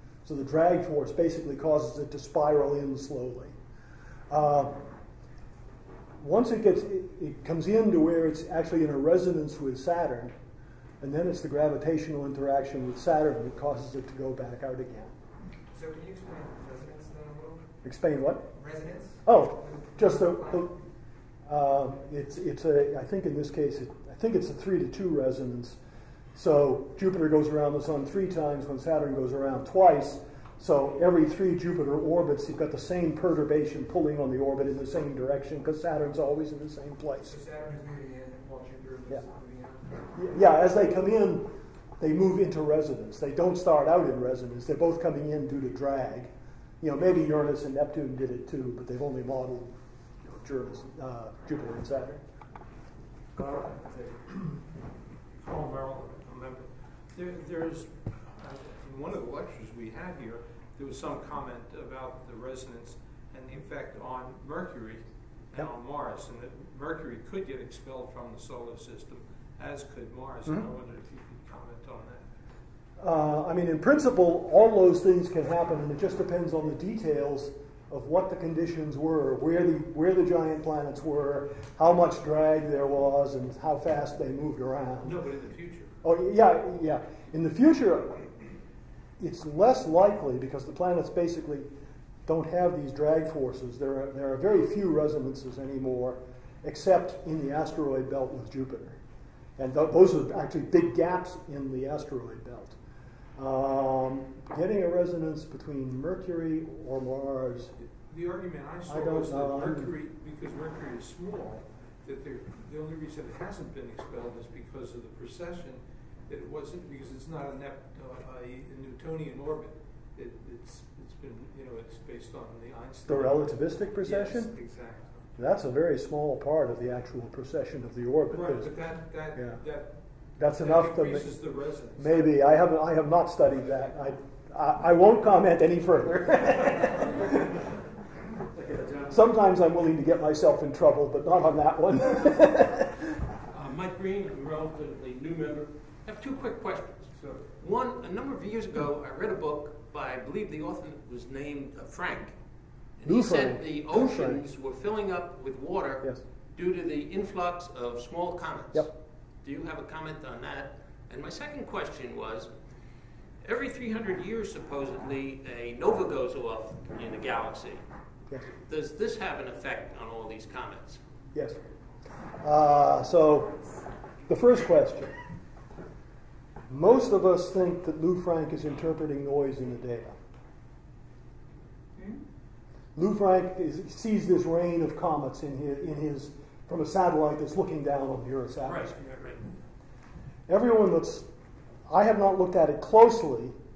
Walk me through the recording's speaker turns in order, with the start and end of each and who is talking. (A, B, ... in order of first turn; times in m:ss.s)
0:00.2-0:03.6 A
0:04.3-0:04.8 A
0:06.2-0:10.3 A
0:11.0-0:15.1 A
0:15.7-0:17.7 B
0:17.8-0:18.5 A
0:18.5-0:20.7 B
0:19.2-0:20.8 A
0:21.5-0:25.8 A
0:26.4-0:37.3 A
0:37.2-0:40.0 B
0:40.2-0:46.3 A
0:46.8-0:52.2 A
0:53.4-0:54.6 C
0:55.3-1:12.3 C
1:13.0-1:25.2 A
1:25.0-1:25.9 C
1:26.0-1:28.3 A
1:29.2-1:31.7 A
1:32.3-1:39.0 A
1:39.6-1:42.8 A
1:43.4-1:47.7 A
1:47.8-2:05.3 C
1:48.9-1:50.0 A
2:03.0-2:04.5 A
2:05.4-2:08.8 A
2:08.3-2:12.3 C
2:09.3-2:09.6 A
2:10.4-2:11.4 A
2:12.0-2:17.4 A
2:16.9-2:17.6 C
2:18.6-2:19.2 C
2:19.1-2:23.1 A
2:23.5-2:32.4 D
2:27.2-2:27.5 C
2:33.0-2:38.9 D
2:33.0-2:34.5 A
2:39.4-2:42.5 D
2:43.4-2:47.8 D
2:48.7-2:51.0 D
2:51.3-2:51.6 A
2:52.4-2:53.6 A
2:54.3-2:55.2 A
2:56.7-3:00.2 A
3:03.0-3:09.1 A
3:08.6-3:09.4 D
3:10.5-3:11.3 A
3:11.9-3:13.6 A